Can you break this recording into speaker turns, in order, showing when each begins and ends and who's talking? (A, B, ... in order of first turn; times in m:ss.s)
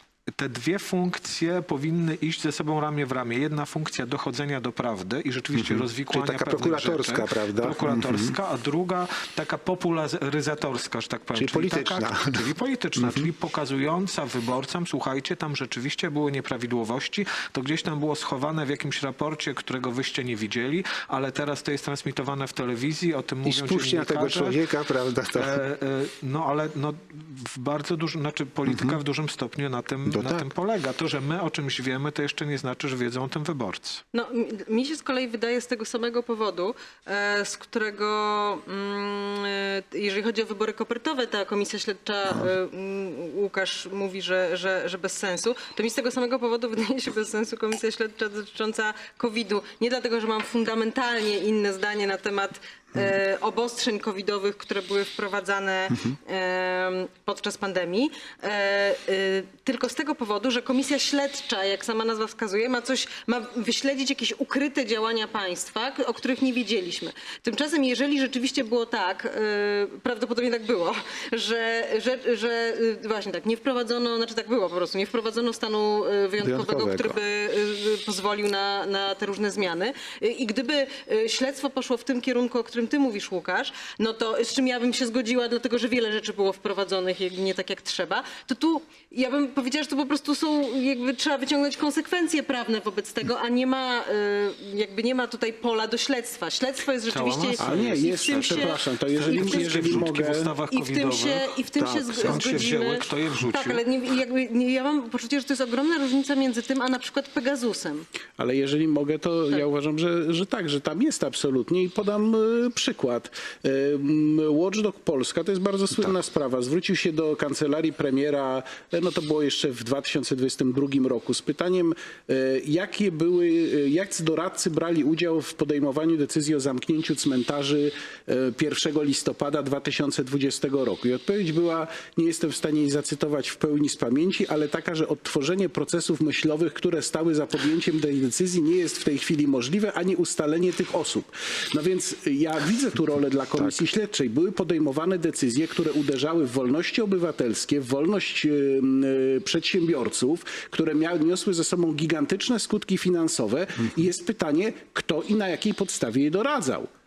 0:00.4-0:24.6 A
0:05.6-0:08.4 B
0:11.4-0:12.4 B
0:13.0-0:13.3 B
0:23.4-0:25.6 B
0:25.3-0:34.0 A
0:28.7-0:29.0 B
0:30.1-0:30.5 B
0:34.1-1:40.1 C
1:16.4-1:17.2 B
1:37.1-1:41.5 A
1:37.6-1:40.5 D
1:40.7-1:48.1 C
1:41.8-1:42.6 B
1:42.2-1:43.8 A
1:48.4-2:36.9 D